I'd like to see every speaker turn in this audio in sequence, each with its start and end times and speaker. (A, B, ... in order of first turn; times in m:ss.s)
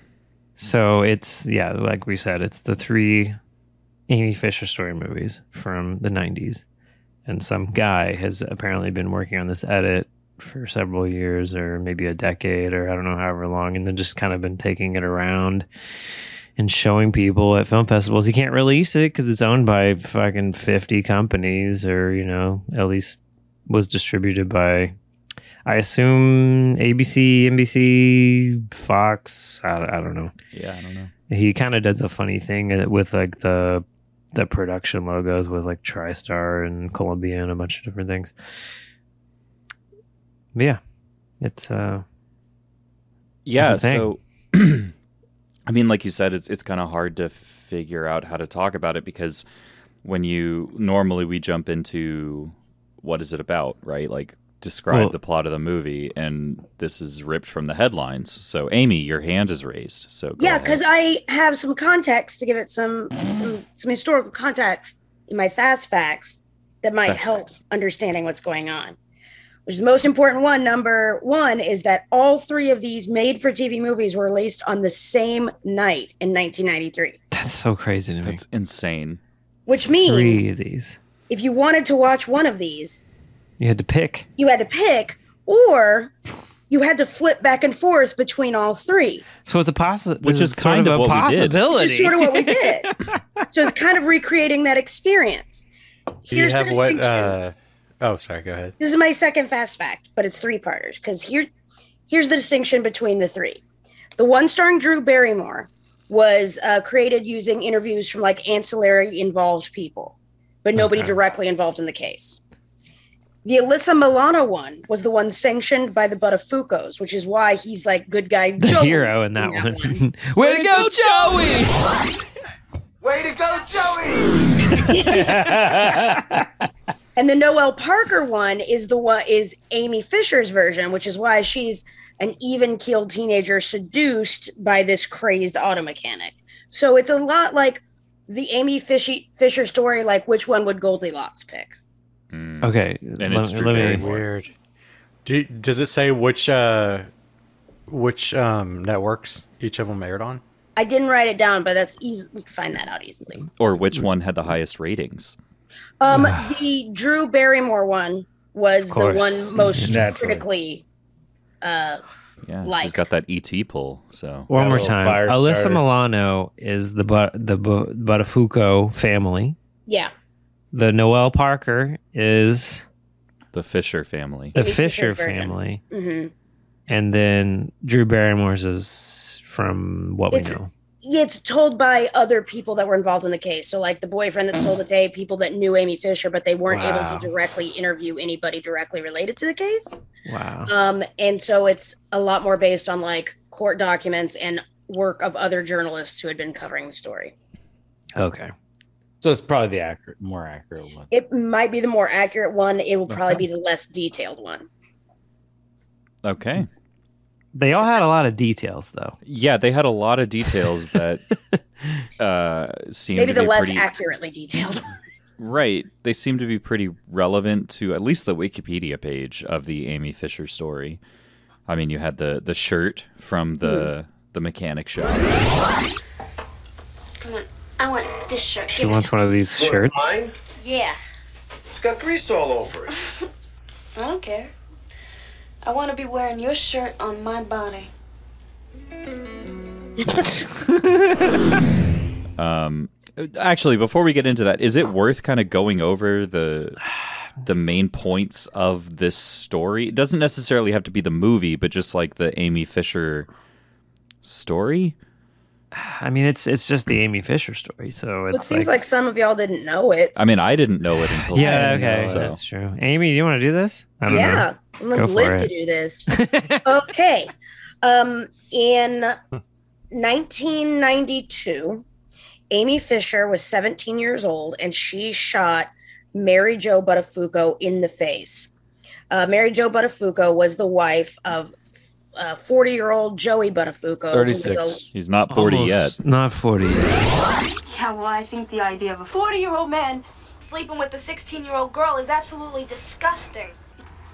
0:00.6-0:03.4 A
0:04.1-0:06.6 A
0:07.3-0:15.7 A
0:16.6-0:25.0 A
0:25.7-0:30.3 A
0:30.5-0:31.1 B
0:31.3-0:38.3 A
0:40.6-0:40.8 A
0:41.4-0:42.0 A
0:43.4-0:44.9 B
0:43.6-0:44.1 A
0:45.7-0:49.4 B
0:50.0-1:00.8 B
1:00.4-1:09.0 C
1:07.0-1:07.4 B
1:09.7-1:17.2 C
1:17.3-1:18.4 A
1:18.2-1:19.2 B
1:19.7-1:20.5 C
1:20.0-1:21.0 A
1:21.3-1:23.0 C
1:23.6-1:24.3 A
1:24.4-1:26.1 C
1:26.7-1:29.3 C
1:29.4-1:33.2 A
1:30.2-1:31.7 B
1:31.7-1:32.9 C
1:33.5-1:35.7 C
1:36.3-1:38.8 D
1:36.3-1:37.4 C
1:38.8-1:41.5 C
1:42.1-1:43.6 C
1:44.2-1:52.4 C
1:50.8-1:51.2 A
1:53.4-2:00.0 C
1:58.6-2:01.6 A
2:00.4-2:01.7 E
2:03.0-2:04.7 F
2:04.9-2:05.6 C
2:04.9-2:06.4 E
2:07.2-2:21.7 C
2:22.3-2:24.2 B
2:22.6-2:24.1 A
2:24.0-2:24.5 D
2:25.2-2:27.1 D
2:27.9-2:30.4 D
2:30.8-2:33.5 C
2:33.6-2:35.4 B
2:36.0-2:40.8 C
2:36.1-2:36.5 A
2:38.9-2:40.0 A
2:39.7-2:40.4 E
2:41.6-2:42.0 C
2:42.4-2:44.5 B
2:42.6-2:43.0 C
2:44.5-2:49.6 A
2:44.5-2:45.8 E
2:49.9-2:50.1 C
2:50.7-2:52.8 A
2:53.5-2:54.6 B
2:54.6-2:55.8 A
2:54.6-2:56.3 C
2:56.9-3:00.7 A
3:00.3-3:10.0 C
3:06.7-3:07.3 A
3:10.3-3:10.7 A
3:10.7-3:17.3 C
3:18.2-3:18.5 A
3:19.2-3:21.1 E
3:21.1-3:24.7 C
3:26.2-3:26.7 B
3:27.6-3:29.2 A
3:29.2-3:31.2 B
3:32.2-3:33.9 B
3:33.2-3:34.9 C
3:35.4-3:41.0 B
3:41.7-3:45.3 B
3:43.6-3:43.9 C
3:47.2-3:49.1 G
3:48.8-3:50.2 A
3:49.6-3:50.4 F
3:50.6-3:51.0 G
3:51.7-3:52.9 F
3:54.0-3:54.5 G
3:55.6-3:57.9 G
4:02.4-4:06.8 B
4:07.4-4:13.3 B
4:14.2-4:15.0 B
4:15.7-4:18.7 A
4:18.3-4:20.2 C
4:20.2-4:22.4 B
4:21.3-4:25.5 A
4:21.4-4:22.3 E
4:24.1-4:26.1 C
4:26.1-4:26.6 A
4:26.6-4:29.2 C
4:29.9-4:31.8 C
4:32.5-4:38.5 C
4:39.1-4:41.6 C
4:42.2-4:44.8 C
4:44.1-4:44.8 E
4:44.9-4:46.0 B
4:45.3-4:47.0 A
4:47.6-4:53.5 G